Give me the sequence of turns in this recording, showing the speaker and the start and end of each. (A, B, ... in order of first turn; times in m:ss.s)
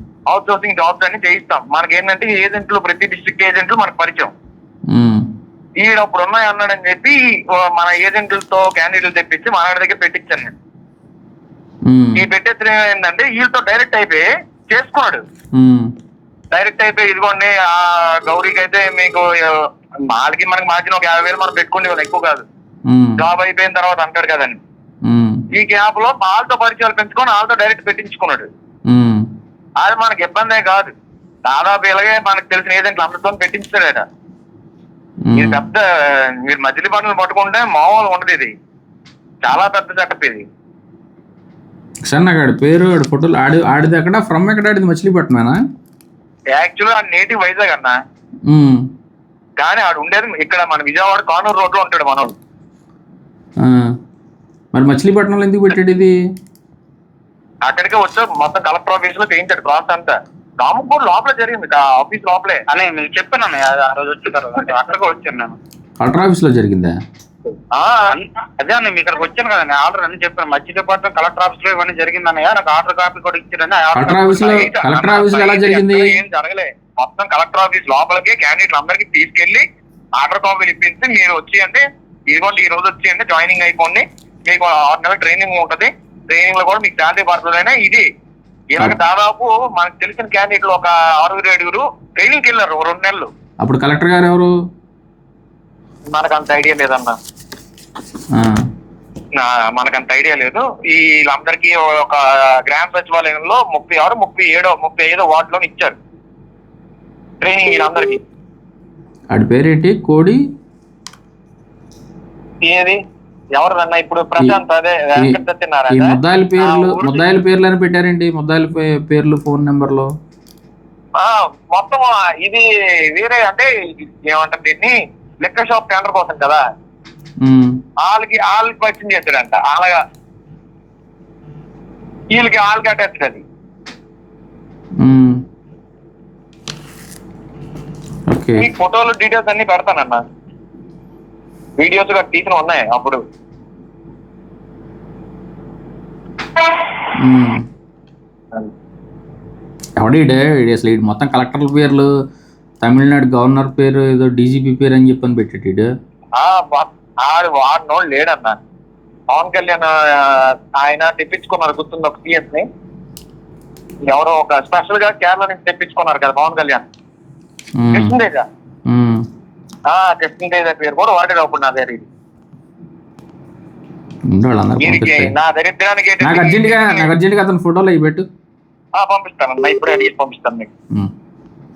0:00.3-0:04.3 A
0:04.9-0:05.3 B
0:05.8-0:10.5 A
0:11.9-0:12.2 B
0:12.2-0:15.2 A
0:15.6-0:15.9 B
0:16.5-0:19.5 A
0:20.1-0:22.4 A
0:22.9-0:23.2 B
0:23.2-0:24.6 A
0:25.0-0:25.4 B
0:25.5-0:28.5 A
0:28.9-0:29.2 B
0:29.8-0:30.9 A
0:31.5-0:34.1 A
0:35.2-0:35.6 B
0:35.4-0:35.8 A
0:36.4-0:38.5 A
0:39.4-0:40.4 A
0:42.1-0:45.6 B
0:46.5-0:48.0 A
0:48.5-0:48.8 B
0:49.6-0:52.3 A
0:53.6-0:53.8 B
0:54.7-0:56.1 B
0:57.6-1:02.6 A
1:02.7-1:05.6 C
1:06.0-1:07.0 B
1:07.7-1:08.1 A
1:08.1-1:14.6 C
1:13.9-1:16.2 B
1:14.4-1:19.6 A
1:20.2-1:28.0 A
1:28.7-1:33.3 A
1:33.6-1:34.5 B
1:36.1-1:37.2 A
1:39.4-1:46.0 A
1:47.4-1:48.2 A
1:49.3-1:50.4 B
1:52.6-1:53.0 A
1:53.6-1:57.3 A
1:55.9-2:00.1 B
2:01.2-2:03.7 A
2:04.3-2:06.6 A
2:07.4-2:07.8 B
2:08.0-2:10.0 A
2:12.3-2:13.4 A
2:15.0-2:15.4 B
2:18.3-2:18.6 B
2:18.6-2:20.2 A
2:21.8-2:23.2 A
2:27.2-2:27.6 B
2:30.0-2:32.1 B
2:32.8-2:35.9 B
2:36.4-2:38.6 A
2:39.3-2:42.6 A
2:44.1-2:46.8 A
2:47.8-2:48.2 B
2:47.9-2:48.5 A
2:48.9-2:49.2 B
2:49.9-2:52.1 A
2:54.3-2:55.3 B
2:54.8-2:57.1 A
2:56.2-2:58.3 B
2:59.0-3:00.7 A